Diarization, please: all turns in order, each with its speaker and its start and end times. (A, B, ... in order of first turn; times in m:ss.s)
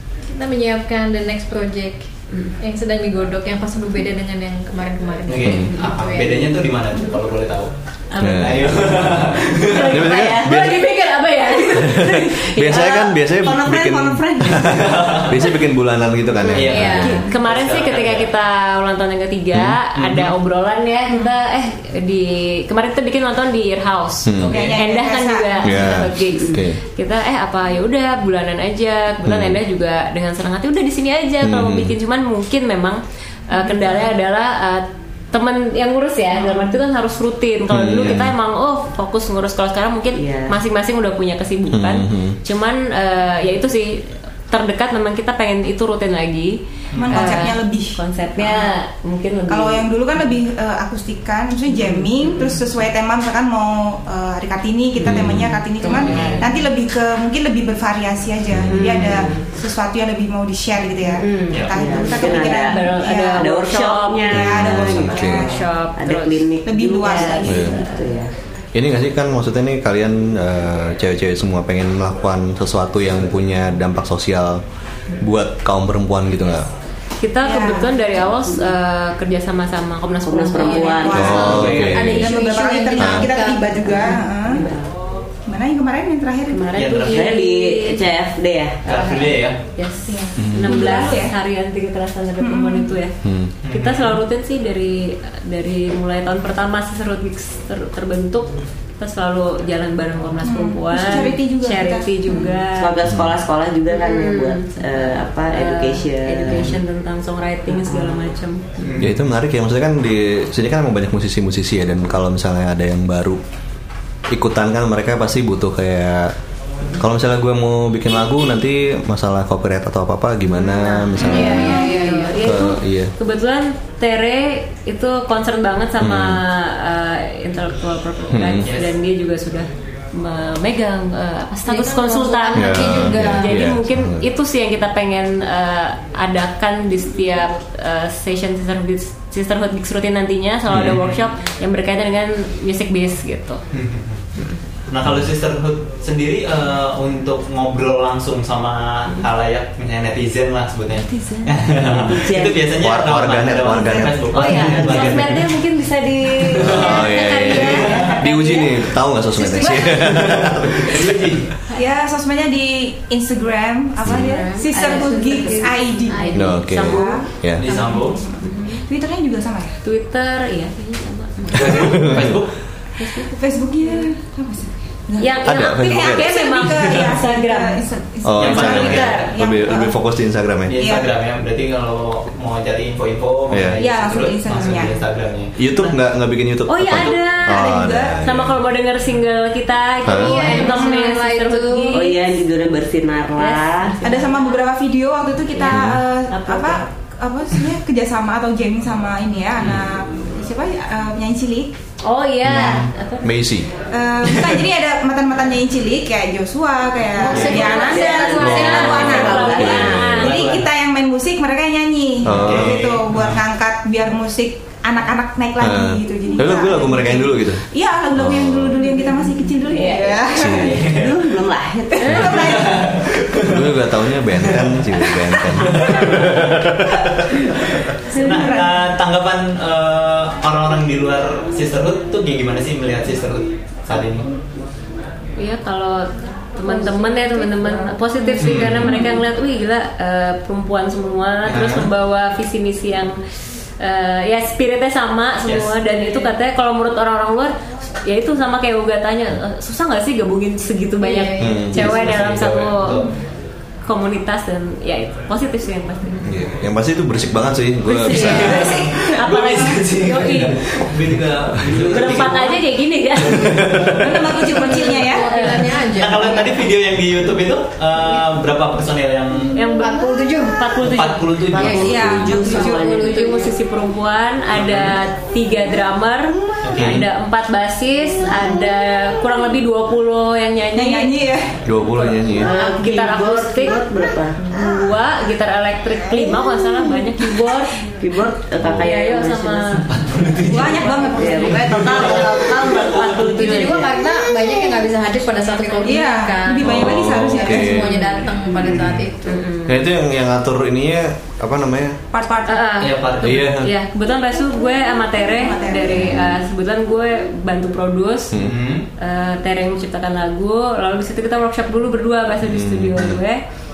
0:00.3-0:02.0 A
0:02.3-0:02.6 B
0:02.6-0:06.5 A
0:05.3-0:10.0 C
0:05.4-0:05.7 D
0:08.1-0:08.7 B
0:08.2-0:10.9 D
0:09.6-0:13.2 B
0:10.1-0:10.5 E
0:11.7-0:17.1 D
0:13.4-0:15.2 E
0:14.6-0:15.5 C
0:16.5-0:17.2 A
0:16.5-0:18.3 C
0:17.0-0:49.9 B
0:19.5-0:19.8 D
0:19.9-0:20.3 C
0:24.2-0:24.6 D
0:24.4-0:24.9 C
0:24.5-0:25.9 F
0:25.6-0:26.8 D
0:29.2-0:29.6 D
0:31.4-0:31.9 D
0:37.7-0:38.3 D
0:40.1-0:40.6 E
0:41.7-0:42.4 D
0:46.9-0:47.4 C
0:47.0-0:48.8 F
0:49.5-1:03.5 F
0:55.0-0:55.5 D
0:55.8-0:56.6 B
0:56.0-0:56.4 C
0:58.5-0:59.3 D
0:58.7-0:59.5 B
1:01.2-1:04.4 B
1:01.5-1:01.8 C
1:01.7-1:05.3 E
1:04.3-1:05.7 F
1:04.3-1:05.5 D
1:05.3-1:06.5 B
1:06.0-1:08.3 E
1:06.6-1:07.6 F
1:07.0-1:08.1 B
1:07.4-1:07.8 D
1:08.7-1:14.6 D
1:15.2-1:16.7 D
1:17.2-1:21.6 B
1:17.4-1:17.9 F
1:20.2-1:21.5 E
1:20.5-1:24.7 F
1:21.1-1:22.3 D
1:21.2-1:24.2 A
1:21.3-1:22.0 C
1:23.0-1:23.3 D
1:24.5-1:24.8 B
1:25.5-1:26.7 F
1:26.5-1:28.0 B
1:26.7-1:27.3 C
1:27.0-1:29.2 E
1:28.8-1:29.6 C
1:29.8-1:33.1 B
1:30.1-1:31.3 F
1:30.4-1:30.8 D
1:32.4-1:32.9 F
1:33.2-1:33.6 D
1:33.6-1:34.2 C
1:33.7-1:43.0 B
1:40.4-1:42.6 F
1:42.8-1:46.7 E
1:43.0-1:43.3 D
1:43.9-1:49.0 B
1:47.8-1:48.3 E
1:48.8-1:49.2 C
1:49.0-1:53.4 D
1:54.3-1:56.3 D
1:57.0-2:03.1 D
2:00.4-2:23.6 B
2:01.2-2:02.4 A
2:01.4-2:02.0 F
2:06.0-2:06.4 D
2:08.3-2:08.7 D
2:08.6-2:08.9 C
2:11.7-2:13.7 A
2:12.5-2:14.3 D
2:20.7-2:21.0 D
2:20.8-2:21.1 C
2:23.7-2:24.2 C
2:24.9-2:35.5 C
2:31.1-2:31.5 B
2:32.0-2:32.7 E
2:32.7-2:35.3 D
2:34.3-2:38.4 B
2:36.5-2:38.2 C
2:36.6-2:41.3 D
2:38.3-2:38.7 F
2:39.3-2:40.2 F
2:40.0-2:41.5 C
2:41.7-2:49.8 F
2:44.0-2:44.3 D
2:44.1-2:48.8 B
2:46.1-2:46.5 A
2:46.3-2:47.7 D
2:47.6-2:48.2 C
2:49.8-2:52.2 B
2:51.6-2:52.4 D
2:51.6-2:52.5 C
2:53.0-2:54.1 B
2:53.3-3:00.0 F
2:55.2-2:57.8 B
2:55.4-2:56.3 D
2:58.2-3:00.7 D
2:58.4-2:59.3 C
3:00.7-3:06.0 C
3:00.7-3:01.1 F
3:03.5-3:03.8 D
3:03.8-3:05.0 F
3:05.6-3:08.6 D
3:06.7-3:12.2 B
3:06.8-3:07.2 C
3:07.5-3:08.2 F
3:10.0-3:10.6 D
3:10.1-3:12.0 A
3:11.9-3:14.0 E
3:13.4-3:14.6 B
3:14.0-3:21.7 F
3:15.5-3:16.9 B
3:15.7-3:16.0 D
3:22.0-3:23.3 B
3:22.4-3:23.7 D
3:23.9-3:40.9 F
3:24.2-3:24.5 C
3:27.1-3:29.3 A
3:27.3-3:27.8 C
3:27.8-3:30.2 E
3:28.4-3:30.3 D
3:28.4-3:30.3 B
3:30.1-3:30.7 C
3:32.2-3:32.9 D
3:32.3-3:33.4 C
3:35.6-3:37.6 D
3:38.1-3:38.8 D
3:39.7-3:40.2 B
3:40.3-3:40.8 D
3:40.4-3:41.3 C
3:40.8-3:42.4 E
3:41.9-3:43.0 F
3:42.1-3:42.6 B
3:42.4-3:44.8 C
3:43.4-3:47.4 D
3:45.6-3:46.6 C
3:48.1-3:48.9 F
3:48.1-3:54.3 C
3:55.4-4:03.2 B
3:56.7-3:58.9 A
3:58.4-3:59.0 C
4:01.4-4:01.9 C
4:03.8-4:13.1 B
4:05.4-4:05.7 C
4:11.0-4:11.6 A
4:11.4-4:12.2 D
4:11.7-4:13.1 C
4:13.8-4:16.3 B
4:16.2-4:18.7 D
4:17.9-4:18.6 E
4:18.0-4:20.6 B
4:18.2-4:19.7 F
4:18.4-4:22.6 C
4:21.5-4:22.0 D
4:21.9-4:23.9 B
4:23.3-4:24.1 C
4:23.5-4:23.9 D
4:24.0-4:25.3 F
4:24.7-4:26.7 A
4:24.7-4:25.8 B
4:25.9-4:29.6 C
4:29.5-4:31.7 B
4:29.7-4:30.6 A
4:30.8-4:32.0 C
4:31.5-4:33.2 E
4:31.6-4:32.3 D
4:31.7-4:33.2 F
4:32.3-4:41.1 B
4:34.5-4:35.0 C
4:36.6-4:37.1 C
4:36.8-4:37.1 D
4:40.7-4:42.2 F
4:41.6-4:42.5 D
4:42.3-4:43.9 B
4:42.3-4:44.5 E
4:44.4-4:47.9 B
4:48.0-4:49.8 E
4:48.8-4:53.8 B
4:49.9-4:50.9 C
4:50.5-4:52.3 F
4:51.2-4:54.0 E
4:51.6-4:53.2 C
4:53.4-4:59.4 A
4:55.8-4:57.9 F
4:56.6-4:58.0 D
4:57.8-4:58.2 B
4:58.5-4:59.1 C
4:59.2-4:59.8 B
4:59.6-5:02.0 D
5:02.1-5:02.7 F
5:02.4-5:08.3 B
5:02.8-5:03.5 C
5:03.2-5:03.7 D
5:05.3-5:06.1 F
5:05.9-5:06.4 D
5:08.3-5:08.6 D
5:08.3-5:08.9 C
5:09.0-5:13.4 B
5:12.4-5:13.2 D